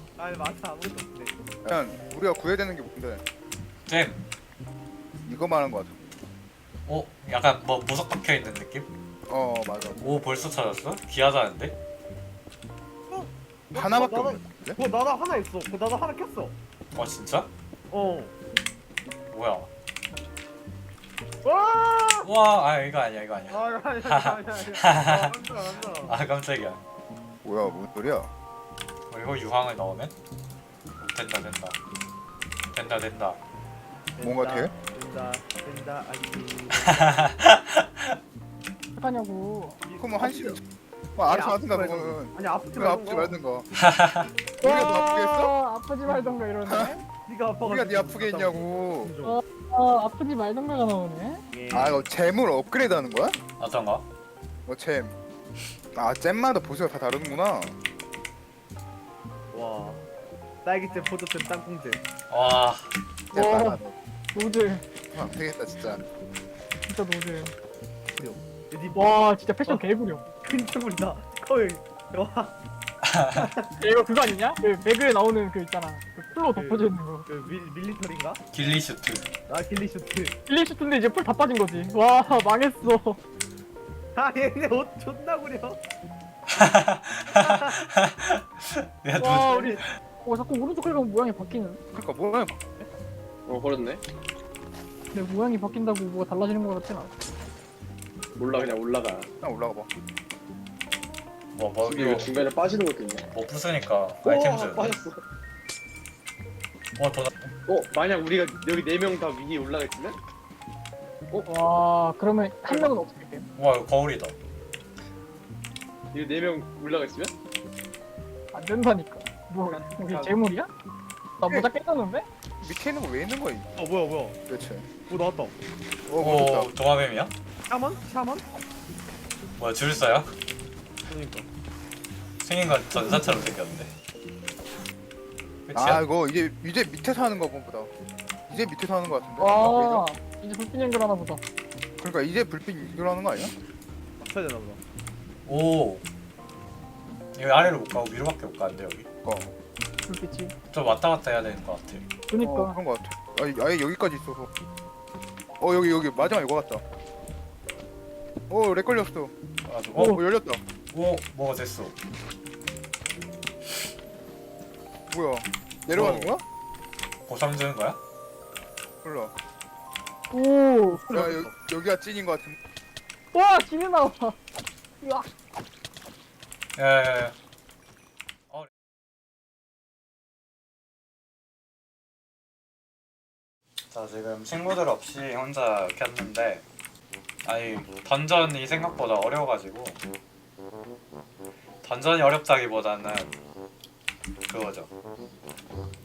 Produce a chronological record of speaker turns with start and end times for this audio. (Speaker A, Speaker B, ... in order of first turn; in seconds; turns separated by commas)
Speaker A: 0.2-1.4, Speaker B: 1.6-3.2, Speaker C: 3.9-4.2, Speaker B: 5.2-6.0, Speaker C: 6.9-8.9, Speaker B: 9.3-10.0, Speaker C: 10.0-11.8, Speaker A: 13.1-16.6, Speaker B: 13.7-14.8, Speaker C: 16.9-17.5, Speaker A: 17.9-18.3, Speaker C: 19.3-19.7, Speaker A: 21.4-22.3, Speaker C: 22.2-25.4, Speaker A: 23.5-26.2, Speaker C: 26.0-26.8, Speaker B: 27.4-28.3, Speaker C: 29.1-30.1, Speaker C: 31.0-31.8, Speaker C: 32.7-33.4, Speaker A: 34.2-37.4, Speaker B: 34.2-34.7, Speaker C: 36.8-38.2, Speaker D: 39.0-39.8, Speaker A: 39.8-40.6, Speaker B: 40.0-40.6, Speaker B: 41.1-43.7, Speaker A: 41.3-43.4, Speaker C: 43.8-44.3, Speaker B: 44.6-45.5, Speaker D: 44.6-47.0, Speaker B: 46.7-46.9, Speaker A: 47.3-49.4, Speaker B: 47.6-49.1, Speaker D: 49.2-51.4, Speaker A: 51.5-52.1, Speaker B: 51.7-53.4, Speaker C: 53.6-54.0, Speaker B: 54.7-55.1, Speaker B: 55.9-57.8, Speaker A: 59.5-60.1, Speaker A: 60.6-62.0, Speaker C: 62.3-62.9, Speaker D: 63.3-63.8, Speaker B: 63.3-64.0, Speaker D: 64.3-64.8, Speaker B: 65.1-66.0, Speaker D: 66.9-67.5, Speaker A: 68.2-72.5, Speaker D: 68.9-70.3, Speaker C: 73.0-73.4, Speaker A: 73.3-73.7, Speaker D: 73.8-77.3, Speaker A: 76.5-78.4, Speaker C: 78.5-79.3, Speaker A: 79.5-80.4, Speaker D: 80.5-83.2, Speaker A: 84.2-85.8, Speaker C: 86.5-89.9, Speaker A: 87.3-87.8, Speaker D: 89.2-91.8, Speaker B: 91.9-92.9, Speaker E: 93.5-94.0, Speaker D: 95.1-97.1, Speaker E: 98.4-99.3, Speaker B: 99.4-99.9, Speaker C: 101.5-102.3, Speaker E: 101.8-103.2, Speaker C: 103.3-105.0, Speaker E: 104.2-105.2, Speaker C: 107.0-107.3, Speaker E: 107.7-110.2, Speaker D: 111.5-113.5, Speaker C: 113.6-114.3, Speaker E: 116.1-117.3, Speaker D: 118.5-120.7, Speaker E: 119.7-120.3, Speaker D: 121.4-122.3, Speaker B: 122.6-123.7, Speaker A: 123.8-124.4, Speaker B: 124.5-124.9, Speaker A: 125.1-125.5, Speaker B: 126.1-126.7, Speaker C: 126.2-127.3, Speaker A: 127.7-128.5, Speaker C: 129.6-130.3, Speaker A: 131.1-131.5, Speaker C: 132.4-133.9, Speaker C: 135.7-136.0, Speaker B: 135.8-137.9, Speaker B: 138.5-140.0, Speaker D: 139.4-141.4, Speaker B: 142.0-143.5, Speaker A: 144.2-144.8, Speaker C: 145.5-146.0, Speaker C: 147.3-149.1, Speaker B: 149.2-149.5, Speaker D: 150.1-150.5, Speaker C: 150.7-152.1, Speaker D: 152.3-152.8, Speaker B: 152.4-154.5, Speaker B: 155.6-156.8, Speaker B: 158.5-159.3, Speaker C: 159.7-160.2, Speaker B: 160.0-160.6, Speaker C: 160.9-161.9, Speaker B: 165.1-166.4, Speaker A: 165.9-166.3, Speaker C: 166.0-166.3, Speaker C: 167.3-168.0, Speaker B: 169.0-169.3, Speaker D: 170.3-171.1, Speaker A: 171.0-171.5, Speaker B: 171.1-172.6, Speaker D: 173.3-174.4, Speaker D: 175.0-175.3, Speaker C: 176.8-177.3, Speaker C: 183.9-186.6, Speaker C: 187.4-190.0, Speaker C: 191.8-193.4, Speaker C: 194.5-194.9